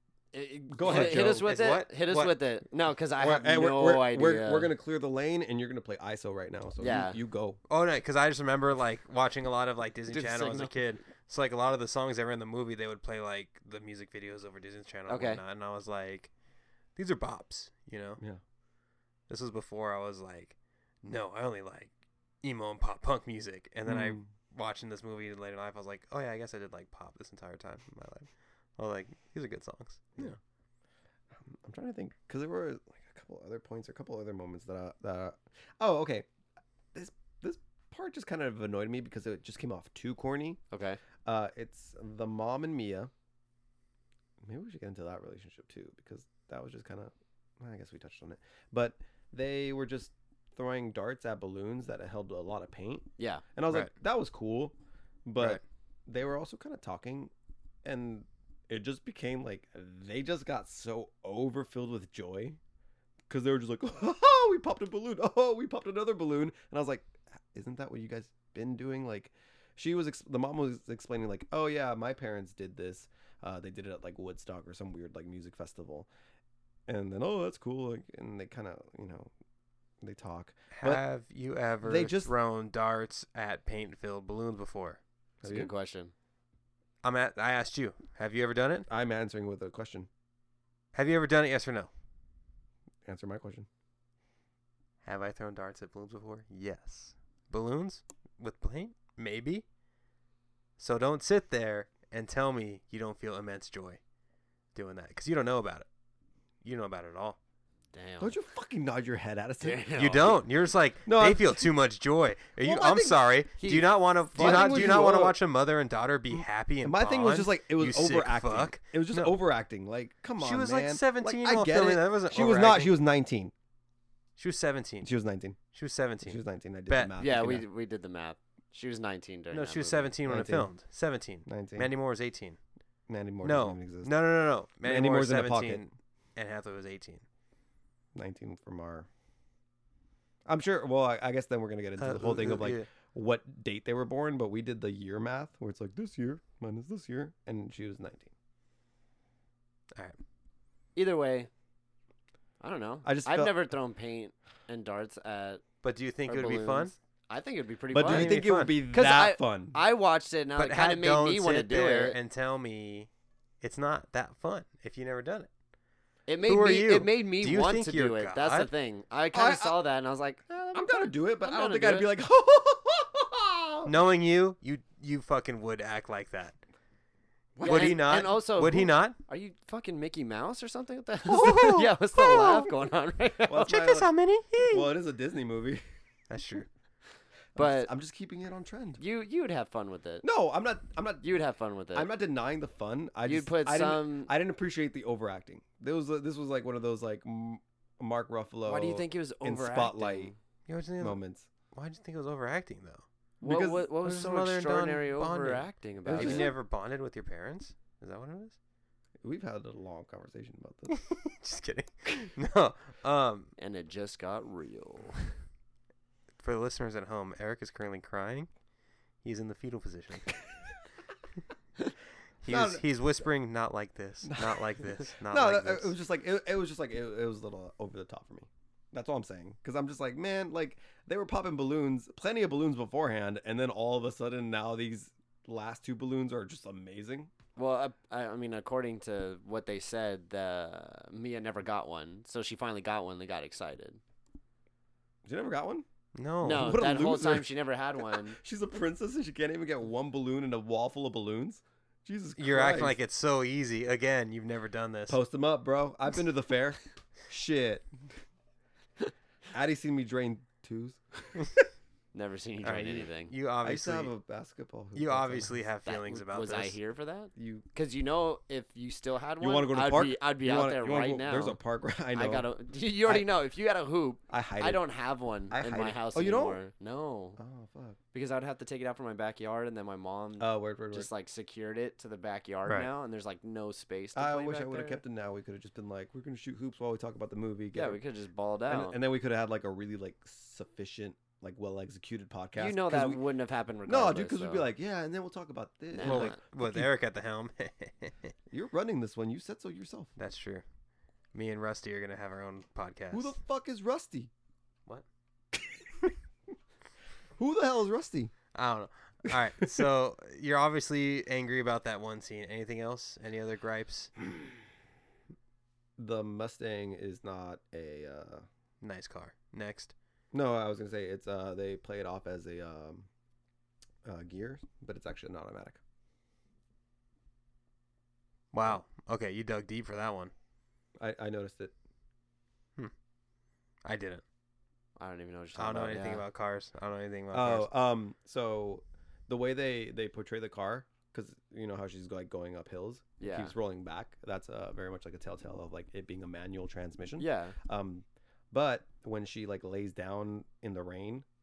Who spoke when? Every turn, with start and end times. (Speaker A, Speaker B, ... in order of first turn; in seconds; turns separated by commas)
Speaker A: 0.3-4.7, Speaker B: 0.7-1.5, Speaker C: 0.8-2.4, Speaker B: 3.2-7.6, Speaker A: 6.8-7.2, Speaker C: 7.7-16.3, Speaker A: 10.1-10.7, Speaker A: 15.1-15.4, Speaker C: 16.9-18.2, Speaker C: 19.3-21.9, Speaker C: 22.4-30.3, Speaker B: 23.9-24.2, Speaker B: 31.3-36.3, Speaker B: 36.9-40.6, Speaker A: 40.7-41.0, Speaker B: 41.2-43.1, Speaker B: 44.4-54.7, Speaker A: 53.2-53.4, Speaker B: 55.2-57.3, Speaker B: 57.8-62.6, Speaker B: 63.3-76.1, Speaker B: 76.9-79.3, Speaker B: 80.0-81.0, Speaker C: 80.7-85.0, Speaker B: 81.8-82.3, Speaker B: 85.4-85.7, Speaker A: 85.4-86.1, Speaker C: 87.0-88.9, Speaker B: 88.9-90.1, Speaker C: 90.9-91.9, Speaker B: 93.0-93.7, Speaker C: 95.0-99.6, Speaker C: 100.8-104.0, Speaker C: 104.7-105.9, Speaker C: 106.6-107.4, Speaker A: 107.9-108.3, Speaker B: 108.2-110.4, Speaker A: 109.6-110.4, Speaker C: 110.0-119.4, Speaker B: 111.0-111.7, Speaker B: 112.6-113.7, Speaker A: 113.6-113.9, Speaker B: 114.3-115.4, Speaker B: 116.3-123.5, Speaker C: 120.4-123.0, Speaker C: 124.4-125.1, Speaker B: 125.0-125.6, Speaker C: 125.7-127.1, Speaker B: 126.2-127.7, Speaker A: 127.2-130.1, Speaker C: 129.5-132.6, Speaker B: 130.2-130.7, Speaker B: 131.4-131.9, Speaker B: 133.1-134.1, Speaker C: 133.4-137.2, Speaker B: 134.8-135.8, Speaker B: 138.1-139.1, Speaker B: 140.4-148.3, Speaker C: 142.0-142.9, Speaker A: 150.9-151.5, Speaker A: 152.6-155.6, Speaker B: 153.0-153.7, Speaker C: 155.8-156.9, Speaker A: 156.3-162.2, Speaker B: 157.9-159.8, Speaker C: 158.0-158.8, Speaker C: 160.6-163.1, Speaker C: 163.6-165.5, Speaker A: 166.3-172.1, Speaker C: 166.4-168.7, Speaker B: 169.3-169.8, Speaker B: 170.5-173.9, Speaker C: 173.8-176.6, Speaker B: 177.6-178.2, Speaker C: 177.6-179.2, Speaker A: 177.6-183.7, Speaker C: 181.3-182.7, Speaker B: 181.4-181.8, Speaker B: 183.4-184.1, Speaker C: 183.6-184.9, Speaker B: 184.6-185.8, Speaker C: 186.3-186.7, Speaker B: 187.5-189.0, Speaker A: 187.6-187.9, Speaker A: 189.0-190.2, Speaker B: 190.2-191.3, Speaker A: 191.2-192.1, Speaker B: 191.9-200.3, Speaker A: 193.2-194.3, Speaker A: 198.7-200.3, Speaker C: 200.7-201.2, Speaker B: 201.0-201.5, Speaker C: 201.7-203.0, Speaker B: 203.4-203.9, Speaker A: 203.4-206.5, Speaker C: 203.9-208.6, Speaker B: 206.0-206.6, Speaker B: 209.2-211.0, Speaker C: 210.9-213.5, Speaker A: 213.6-215.3, Speaker C: 216.4-218.5, Speaker C: 219.2-220.4, Speaker C: 222.4-225.9, Speaker B: 222.5-222.8, Speaker B: 224.2-237.3, Speaker A: 237.6-244.0, Speaker B: 245.2-245.8, Speaker C: 246.1-246.8, Speaker A: 246.4-248.4, Speaker B: 246.5-253.0, Speaker C: 252.4-255.2, Speaker B: 255.1-257.9, Speaker B: 259.5-261.4, Speaker A: 262.1-263.3, Speaker C: 262.6-264.1, Speaker B: 263.6-265.6, Speaker C: 264.9-266.8, Speaker A: 265.8-271.6, Speaker B: 267.4-267.6, Speaker B: 269.4-272.5, Speaker A: 272.1-277.4, Speaker B: 274.3-274.8, Speaker B: 275.5-276.6, Speaker B: 277.4-278.0, Speaker A: 278.1-285.0, Speaker B: 280.4-281.1, Speaker B: 284.1-288.0, Speaker A: 287.7-289.0, Speaker B: 288.7-293.2, Speaker A: 292.6-294.7, Speaker B: 293.9-296.9, Speaker A: 295.9-296.4, Speaker C: 296.0-298.3, Speaker B: 298.5-300.1, Speaker C: 300.2-300.6, Speaker C: 301.3-303.3, Speaker B: 303.1-304.3, Speaker B: 307.4-308.3, Speaker C: 308.5-314.1, Speaker B: 309.3-309.9, Speaker B: 316.0-318.4, Speaker C: 318.8-319.9, Speaker B: 320.3-323.1, Speaker B: 324.0-325.8, Speaker C: 328.5-330.3, Speaker B: 331.0-331.7, Speaker C: 333.8-334.2, Speaker A: 335.0-336.2, Speaker C: 335.6-337.7, Speaker B: 337.3-351.2, Speaker A: 343.2-343.5, Speaker A: 347.2-347.6